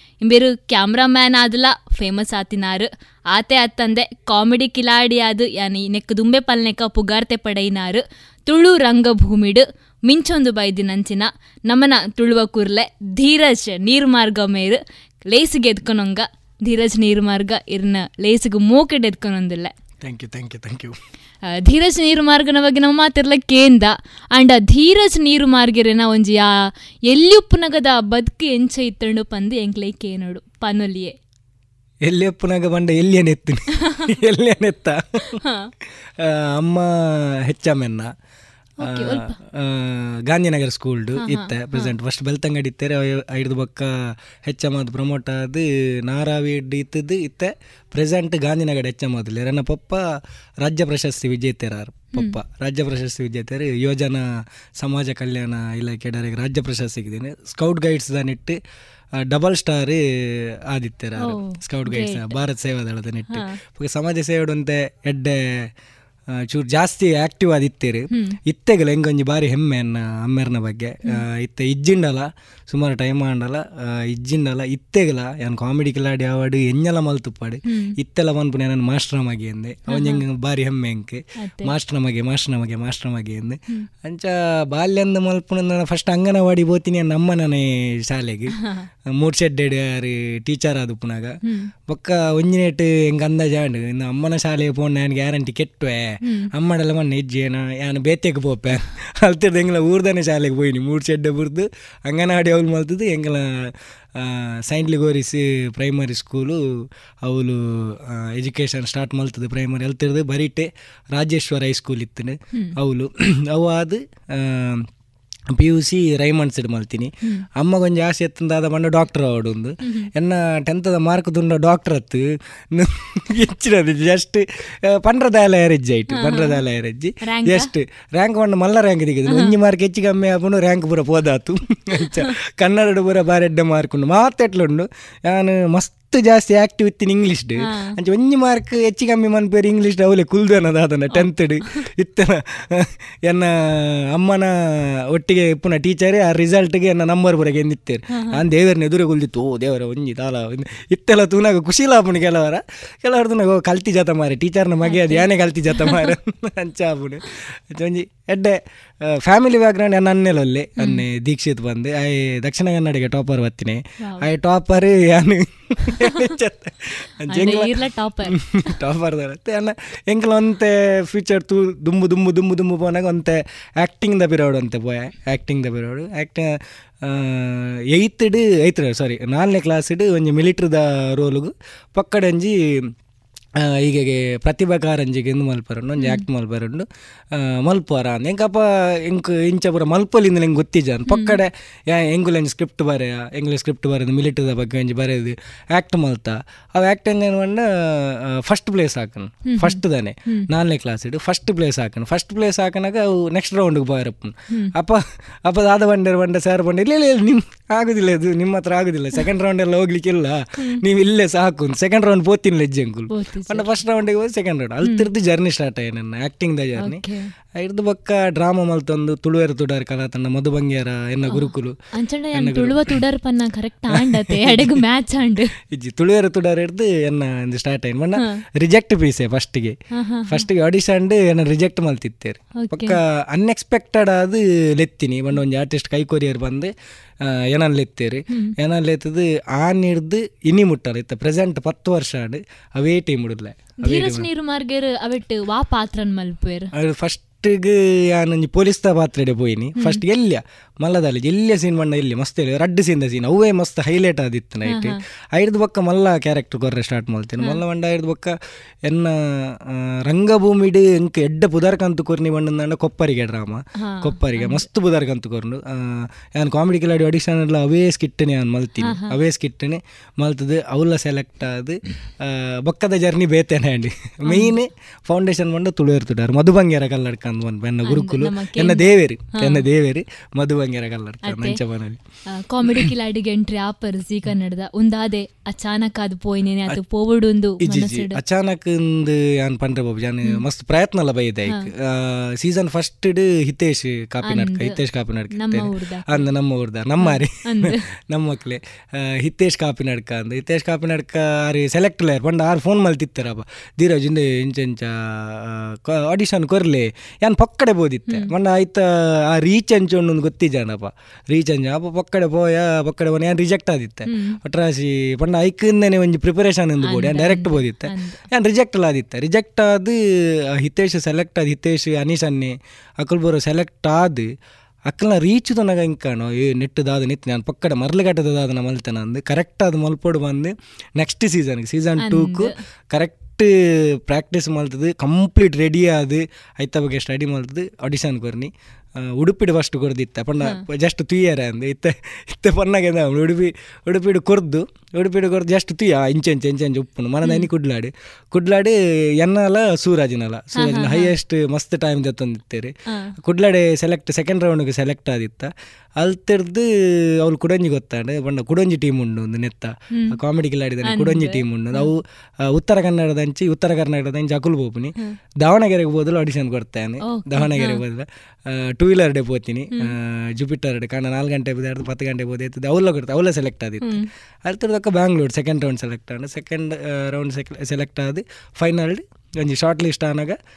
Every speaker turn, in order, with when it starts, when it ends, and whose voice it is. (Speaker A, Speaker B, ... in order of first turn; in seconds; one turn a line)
Speaker A: 0.2-14.8
Speaker A: 15.3-19.7
Speaker B: 20.0-20.9
Speaker A: 21.6-26.5
Speaker A: 27.1-31.1
Speaker B: 32.1-35.4
Speaker A: 35.3-35.7
Speaker B: 36.2-38.1
Speaker A: 38.8-39.3
Speaker B: 38.8-43.9
Speaker A: 41.2-41.9
Speaker B: 44.5-50.0
Speaker B: 50.6-54.2
Speaker A: 52.1-52.4
Speaker B: 54.8-58.6
Speaker B: 59.3-60.0
Speaker B: 60.7-65.7
Speaker A: 61.2-62.4
Speaker A: 63.3-63.6
Speaker B: 66.5-88.5
Speaker A: 68.1-68.4
Speaker A: 79.9-80.2
Speaker A: 81.4-81.7
Speaker B: 89.2-91.3
Speaker B: 91.9-103.5
Speaker B: 104.2-106.6
Speaker B: 107.2-114.8
Speaker B: 115.5-144.5
Speaker A: 126.1-126.6
Speaker A: 127.2-127.7
Speaker A: 129.3-129.5
Speaker A: 137.6-137.9
Speaker A: 141.1-141.7
Speaker B: 145.1-158.6
Speaker A: 148.1-148.4
Speaker A: 154.8-156.1
Speaker B: 159.2-176.5
Speaker A: 167.3-168.3
Speaker B: 177.0-182.6
Speaker B: 183.6-186.8
Speaker A: 186.0-186.2
Speaker B: 187.4-217.0
Speaker A: 191.1-191.4
Speaker A: 199.4-200.5
Speaker A: 213.1-213.7
Speaker A: 216.8-217.3
Speaker B: 217.6-221.8
Speaker A: 221.3-225.5
Speaker B: 222.3-222.9
Speaker B: 224.0-224.8
Speaker B: 225.7-229.8
Speaker A: 230.0-230.4
Speaker B: 230.3-236.7
Speaker A: 232.6-233.0
Speaker B: 237.3-244.3
Speaker A: 243.8-246.7
Speaker B: 246.8-258.3
Speaker A: 254.6-255.0
Speaker B: 258.9-282.0
Speaker A: 263.8-264.6
Speaker A: 268.8-269.1
Speaker A: 274.3-274.6
Speaker A: 277.9-279.7
Speaker A: 281.2-281.6
Speaker A: 282.5-288.2
Speaker B: 287.6-320.0
Speaker A: 294.3-294.8
Speaker A: 295.3-296.3
Speaker A: 297.0-297.8
Speaker A: 314.1-314.4
Speaker A: 316.8-318.2
Speaker B: 320.6-324.3
Speaker B: 324.9-333.5
Speaker A: 332.0-332.5
Speaker B: 334.1-338.5
Speaker B: 339.0-352.7
Speaker A: 350.6-351.1
Speaker B: 353.2-356.7
Speaker B: 357.2-362.0
Speaker A: 360.9-361.9
Speaker B: 362.5-380.4
Speaker A: 367.0-367.8